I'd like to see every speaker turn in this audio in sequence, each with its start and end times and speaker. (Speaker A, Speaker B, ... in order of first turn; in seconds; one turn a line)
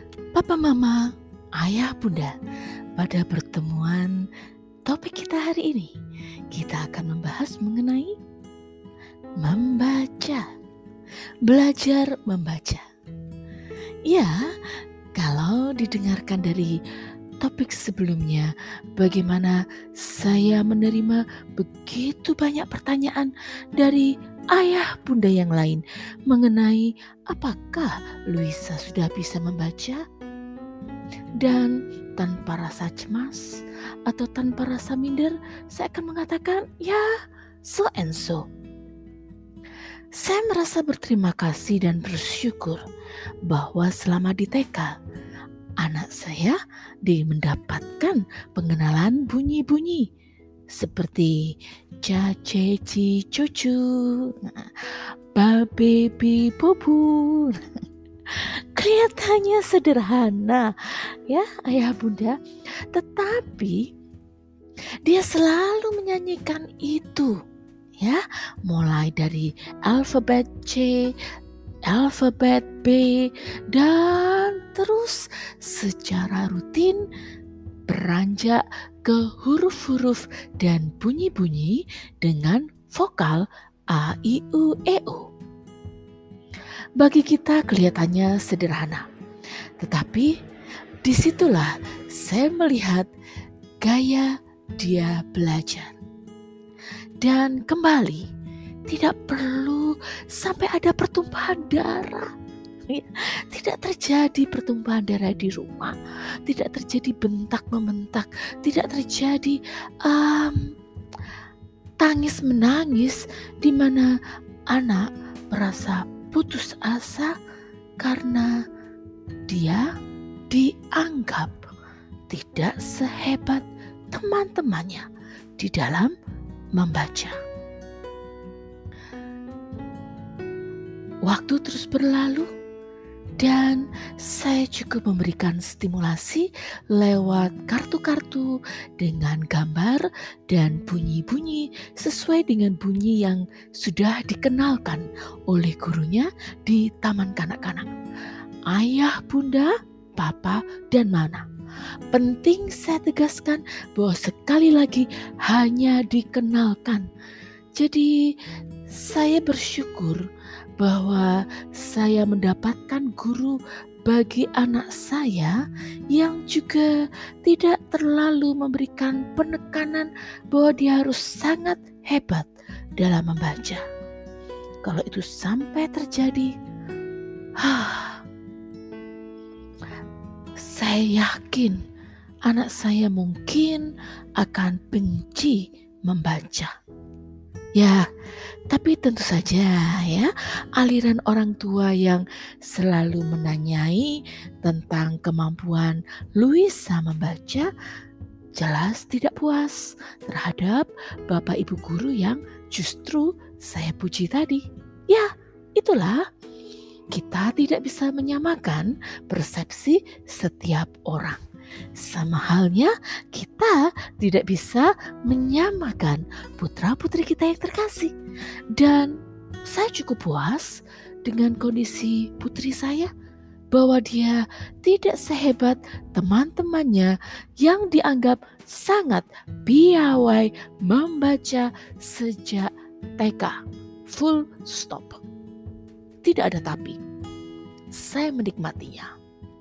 Speaker A: 0.3-2.3
Speaker A: 3.0-4.2
Speaker A: 4.8-5.9
Speaker A: 6.5-8.2
Speaker A: 9.4-10.5
Speaker A: 11.4-12.8
Speaker A: 14.1-16.8
Speaker A: 17.4-30.0
Speaker A: 31.4-37.1
Speaker A: 37.6-38.5
Speaker A: 40.1-42.8
Speaker A: 43.5-45.0
Speaker A: 45.8-50.1
Speaker A: 50.7-57.8
Speaker A: 58.3-63.9
Speaker A: 65.0-67.4
Speaker A: 68.0-71.1
Speaker A: 71.9-77.0
Speaker A: 77.9-85.3
Speaker A: 87.0-89.0
Speaker A: 89.8-90.3
Speaker A: 91.0-93.1
Speaker A: 93.8-95.9
Speaker A: 97.2-98.2
Speaker A: 98.9-102.3
Speaker A: 102.9-110.7
Speaker A: 112.0-114.1
Speaker A: 114.7-117.3
Speaker A: 118.0-118.5
Speaker A: 119.5-119.9
Speaker A: 120.5-121.7
Speaker A: 122.3-125.1
Speaker A: 125.6-126.1
Speaker A: 126.7-127.4
Speaker A: 131.2-132.5
Speaker A: 133.4-147.9
Speaker A: 148.7-151.4
Speaker A: 152.1-157.1
Speaker A: 157.8-158.1
Speaker A: 158.9-160.2
Speaker A: 160.8-165.6
Speaker A: 166.1-173.8
Speaker A: 174.8-176.5
Speaker A: 177.6-178.2
Speaker A: 180.6-181.8
Speaker A: 182.4-186.7
Speaker A: 187.8-188.1
Speaker A: 188.7-197.7
Speaker A: 198.5-206.2
Speaker A: 207.1-211.4
Speaker A: 211.9-218.1
Speaker A: 218.7-219.1
Speaker A: 219.7-223.1
Speaker A: 223.7-233.6
Speaker A: 234.1-235.2
Speaker A: 236.2-236.9
Speaker A: 237.9-239.1